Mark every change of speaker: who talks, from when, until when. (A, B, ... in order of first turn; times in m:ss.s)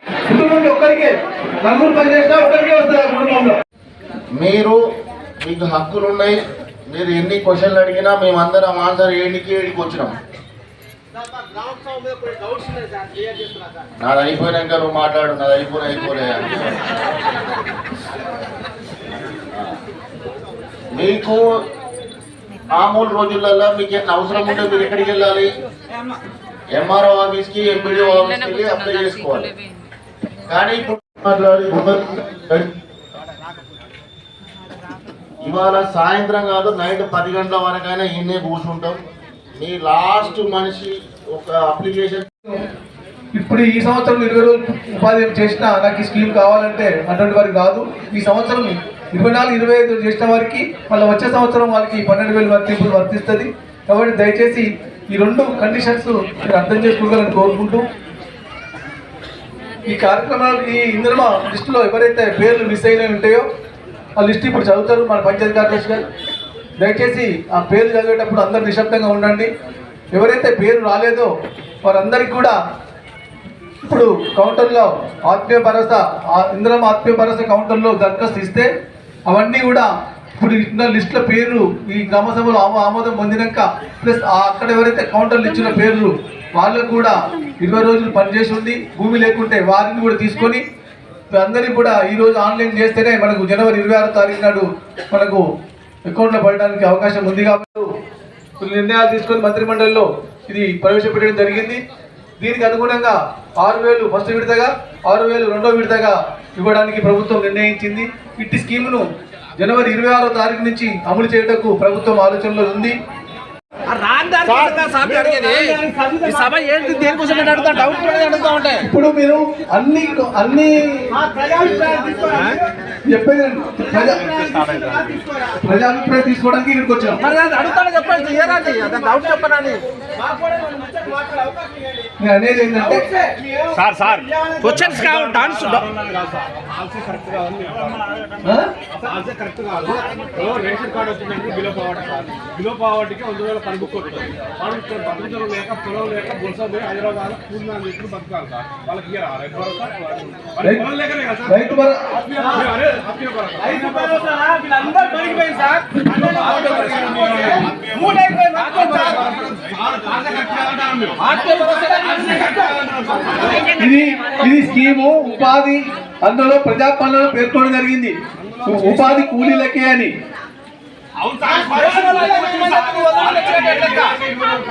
0:00.3-0:01.1 A
0:01.6-0:03.6 A
0:04.3-0:04.8 B
0:05.4-0:06.4 B
0:06.9-0:10.2 B
0:14.0-0:16.7 B
0:20.9-0:21.4 B
0:22.7-0:25.5 B
0:26.7-0:29.5 B
0:30.5-0:32.7 B
0:35.4-0:39.0 B
0:39.5-0:42.3 B
0:43.3-0:57.8 A
0:59.8-1:03.4 A
1:04.2-1:06.0 A
1:06.8-1:09.5 A
1:10.1-1:11.3 A
1:11.8-1:12.6 A
1:13.8-1:18.7 A
1:19.3-1:30.6 A
1:31.3-1:35.4 A
1:36.1-1:37.9 A
1:38.6-1:41.8 A
1:42.4-1:49.0 A
1:49.6-1:53.0 A
1:54.4-1:58.7 C
1:58.8-2:01.1 A
2:01.8-2:02.1 C
2:03.1-2:04.3 A
2:05.6-2:07.2 A
2:07.2-2:09.8 C
2:12.2-2:13.1 A
2:14.6-2:15.8 C
2:16.0-2:17.9 D
2:18.4-2:18.7 A
2:19.2-2:30.1 D
2:30.6-2:30.9 A
2:31.4-2:32.2 A
2:32.8-2:33.4 D
2:39.8-2:40.8 D
2:43.8-2:50.1 A
2:51.8-2:54.1 A